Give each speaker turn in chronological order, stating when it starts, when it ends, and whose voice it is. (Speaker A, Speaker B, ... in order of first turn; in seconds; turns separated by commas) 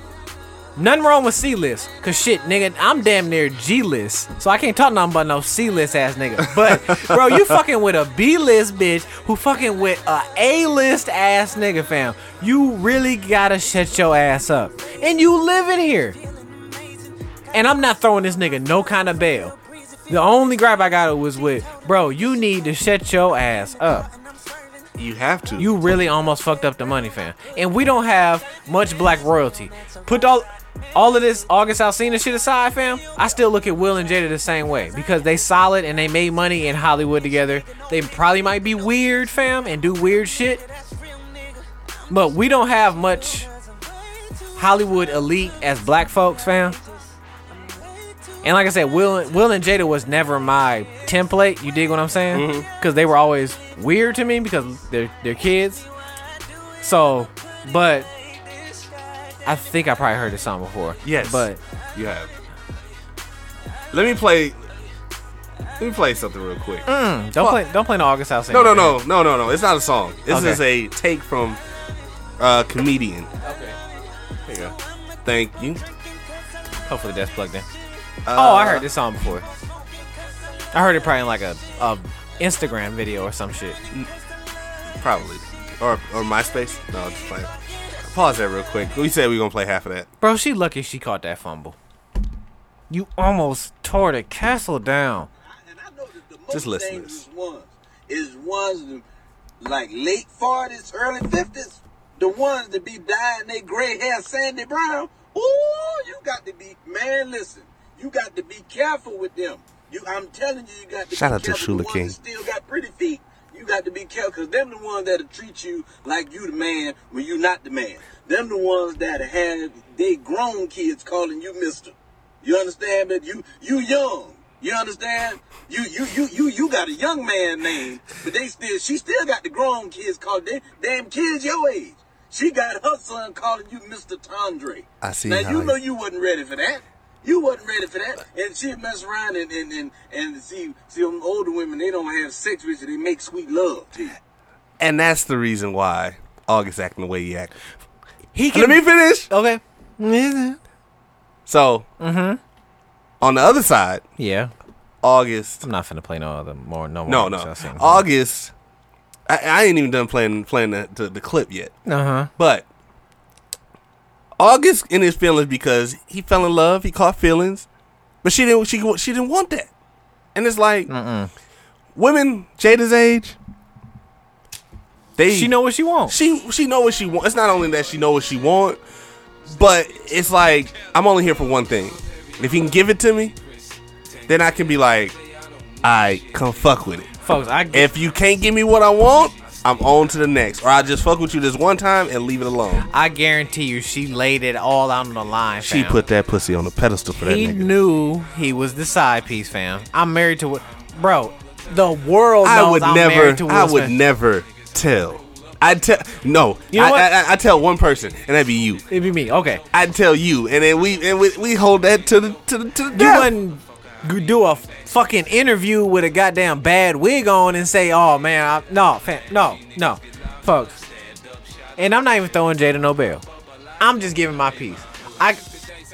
Speaker A: 0.8-16.2, Speaker B: 6.5-7.6, Speaker A: 17.5-19.5, Speaker A: 20.1-24.1, Speaker B: 24.9-25.7, Speaker A: 25.6-40.6, Speaker A: 42.1-43.5, Speaker A: 44.5-46.8, Speaker A: 48.4-55.9, Speaker B: 52.3-52.7, Speaker A: 56.8-58.1, Speaker A: 59.5-61.6, Speaker B: 61.0-62.3, Speaker B: 63.9-64.6, Speaker B: 65.8-67.6, Speaker A: 66.9-69.0, Speaker B: 68.5-71.6, Speaker A: 70.3-70.6, Speaker B: 72.4-73.3, Speaker A: 74.5-74.7, Speaker B: 75.2-75.8, Speaker A: 76.9-77.7, Speaker B: 78.2-78.8, Speaker A: 78.3-79.4, Speaker A: 80.7-83.8, Speaker B: 85.0-87.5, Speaker B: 88.0-90.1, Speaker A: 90.2-91.8, Speaker A: 92.9-95.3, Speaker C: 95.4-99.0, Speaker B: 96.5-97.2, Speaker C: 99.6-144.2, Speaker B: 111.1-112.2, Speaker B: 135.0-135.8, Speaker B: 144.8-147.5, Speaker A: 148.3-150.6, Speaker B: 148.5-149.3, Speaker B: 151.4-151.9, Speaker A: 152.0-152.4, Speaker B: 153.2-154.0, Speaker A: 154.2-154.5, Speaker B: 155.0-155.6, Speaker A: 155.6-158.0, Speaker B: 157.1-158.5, Speaker B: 159.3-161.7, Speaker A: 161.8-162.3, Speaker B: 162.4-162.7, Speaker B: 164.4-167.7, Speaker B: 168.2-169.7, Speaker B: 170.3-170.9, Speaker A: 170.9-171.3, Speaker B: 171.9-173.4, Speaker B: 175.2-175.5, Speaker A: 175.3-176.2, Speaker B: 176.1-178.8, Speaker B: 179.5-183.3, Speaker B: 184.3-185.2, Speaker B: 185.8-187.1, Speaker A: 187.2-187.9, Speaker B: 187.7-192.9, Speaker A: 192.8-196.0, Speaker B: 195.6-197.7, Speaker A: 197.2-203.9, Speaker B: 202.4-208.8, Speaker A: 206.7-207.1, Speaker A: 208.9-209.6, Speaker B: 209.7-213.3, Speaker A: 212.9-220.8, Speaker A: 221.8-223.2, Speaker A: 223.8-225.4